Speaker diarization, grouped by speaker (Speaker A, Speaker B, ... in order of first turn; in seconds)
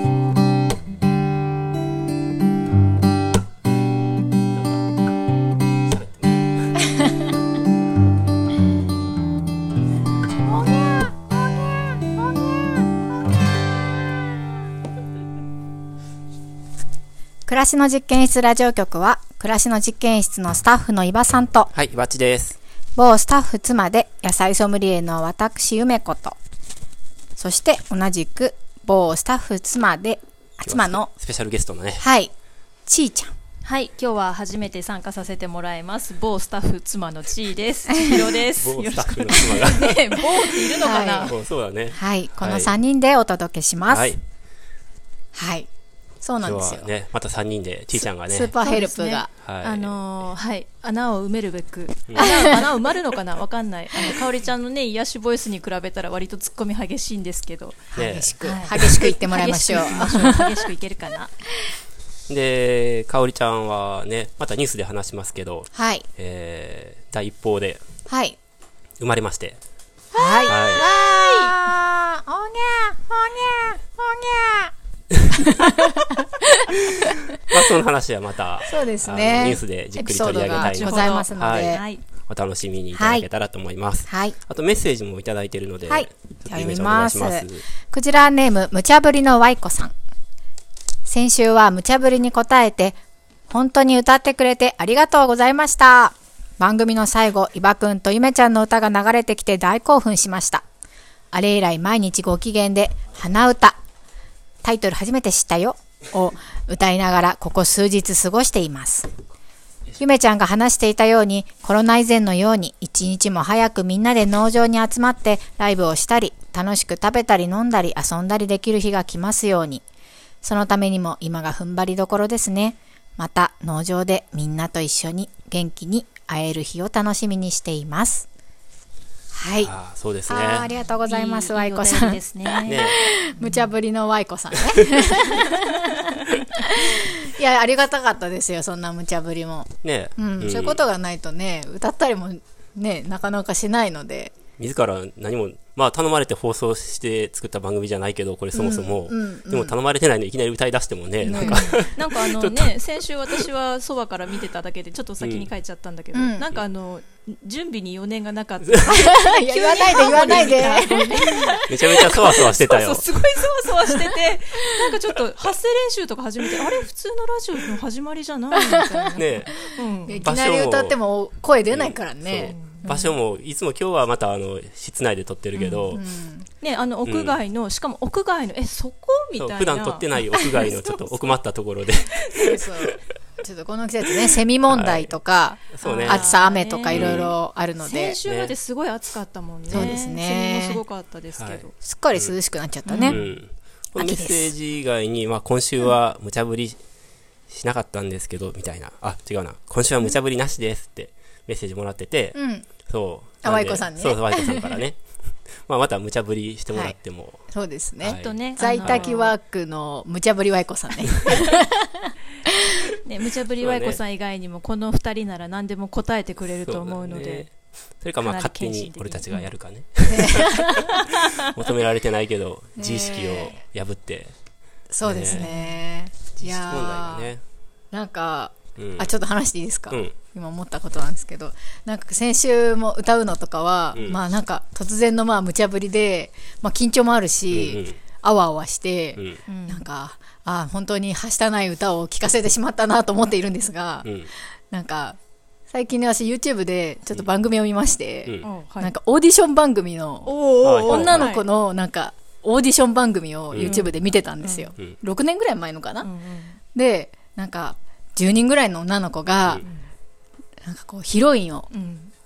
Speaker A: 5.9-6.4, 21.7-22.6, 30.6-32.0, 38.5-40.0, 41.3-42.7, 43.9-44.2, 46.4-48.5, 49.4-50.0, 52.1-52.4, 57.9-58.3, 62.3-67.8, 69.0-69.6, 70.5-70.8, 77.5-87.6, 129.6-130.7, 132.6-132.9, 139.8-140.8, 144.6-152.7, 155.2-155.5, 160.2-160.5, 161.7-163.0, 169.2-169.5, 170.2-171.0, 171.7-176.0, 177.0-177.4, 179.4-182.6, 184.7-185.1, 185.7-186.3, 186.9-187.3, 188.2-188.5, 189.7-190.0, 191.3-191.6, 193.0-196.8, 197.5-205.0, 205.7-207.4, 208.0-209.1, 213.6-214.0, 216.6-224.3, 225.0-225.5, 226.3-227.4, 228.8-229.1, 233.9-234.2, 237.5-238.0, 239.2-239.4, 244.0-244.3, 250.6-251.3, 253.5-253.8
Speaker B: 17.4-21.7, 22.9-26.4, 27.4-31.1, 32.0-32.3, 32.9-33.3, 40.8-41.3, 41.9-44.1, 45.3-45.7, 46.2-46.9, 48.0-49.3, 52.2-52.5, 57.9-60.5, 65.7-66.1, 68.1-68.4, 70.1-74.7, 75.3-77.3, 78.7-81.8, 82.9-83.3, 84.1-84.3, 85.9-89.9, 91.0-93.0, 93.5-100.6, 101.3-103.8, 104.6-109.1, 110.0-119.8, 120.4-128.3, 129.3-129.7, 130.3-144.3, 148.5-149.7, 151.2-151.7, 156.1-156.4, 158.8-161.9, 168.5-168.9, 169.6-173.1, 175.9-176.5, 182.4-188.2, 189.7-190.8, 191.8-193.2, 193.9-194.5, 202.3-202.7, 203.4-204.8, 207.5-212.0, 220.1-220.8, 222.8-223.6, 224.9-227.3, 227.9-244.1, 244.7-245.2, 245.7-256.1, 256.7-259.6, 260.6-261.7
Speaker C: 33.6-41.3, 48.6-57.9, 58.4-61.3, 70.1-71.6, 80.5-82.0, 130.9-133.7, 151.3-170.2, 172.5-172.8, 175.5-176.0, 176.6-181.1, 182.3-182.7, 185.8-187.2, 187.8-191.7, 192.8-193.4, 208.0-209.3, 213.0-217.5, 218.2-219.5, 220.8-221.4, 225.3-225.8, 239.5-239.8, 248.4-248.9, 250.2-251.5, 253.6-254.7, 256.0-256.6, 259.6-259.9, 261.7-262.1